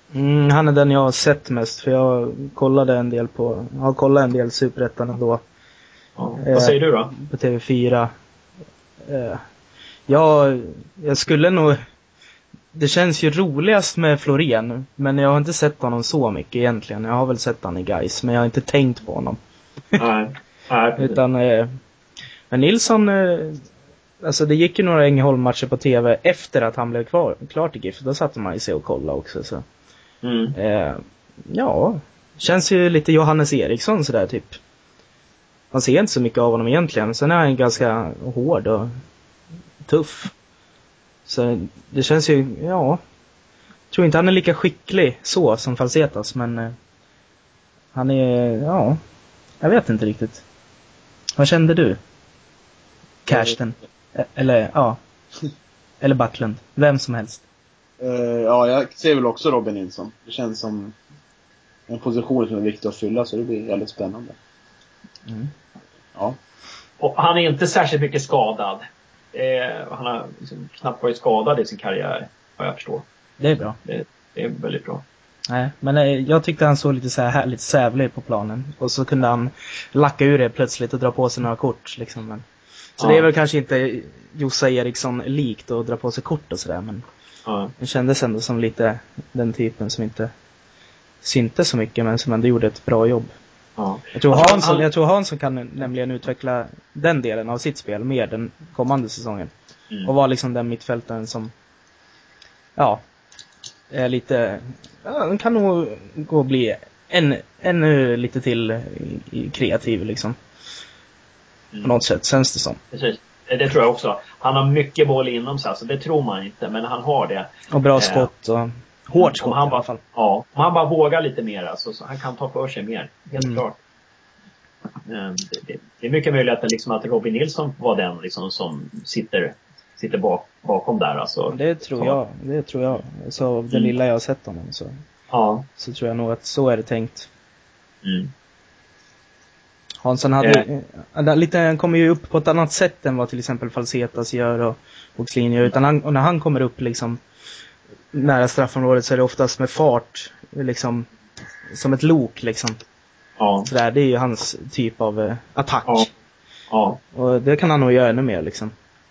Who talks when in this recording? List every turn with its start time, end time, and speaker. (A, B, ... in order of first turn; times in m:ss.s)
0:00.1-0:05.4 A
0:06.2-0:07.1 B
0:06.4-0:08.1 A
0:09.1-0:09.4 A
0:10.1-0:11.8 A
0:12.7-0:19.4 A
0:20.0-0:21.2 B
0:21.0-0:21.8 A
0:22.5-0:23.6 A
0:24.2-0:29.6 A
0:30.2-0:30.6 B
0:30.6-0:34.6 A
0:35.7-0:38.9 A
0:39.9-0:40.3 A
0:41.3-0:43.0 A
0:43.9-0:46.8 A
0:47.9-0:49.0 A
0:49.6-0:50.4 A
0:51.4-0:52.0 A
0:53.3-0:55.0 A
0:56.0-0:57.4 A
0:58.0-1:01.0 C
1:01.9-1:04.4 C
1:07.0-1:13.1 B
1:13.4-1:13.8 A
1:13.8-1:15.0 B
1:15.5-1:22.4 A
1:23.0-1:23.3 B
1:23.0-1:27.0 A
1:27.5-1:27.7 B
1:27.8-1:30.3 A
1:31.2-1:33.3 A
1:33.8-1:34.8 B
1:34.2-1:39.5 A
1:40.1-1:41.5 A
1:42.8-1:43.0 A
1:43.9-1:50.4 A
1:51.8-1:52.8 A
1:52.9-1:58.3 B
1:57.7-2:00.0 A
1:59.2-2:03.8 B
2:05.0-2:12.2 B
2:11.5-2:14.9 A
2:15.3-2:15.7 B
2:15.8-2:17.3 A
2:18.0-2:18.3 B
2:20.0-2:27.2 A
2:28.1-2:31.1 A
2:31.7-2:32.8 A
2:33.4-2:33.7 B
2:33.7-2:36.1 A
2:36.7-2:37.0 B
2:37.1-2:38.7 A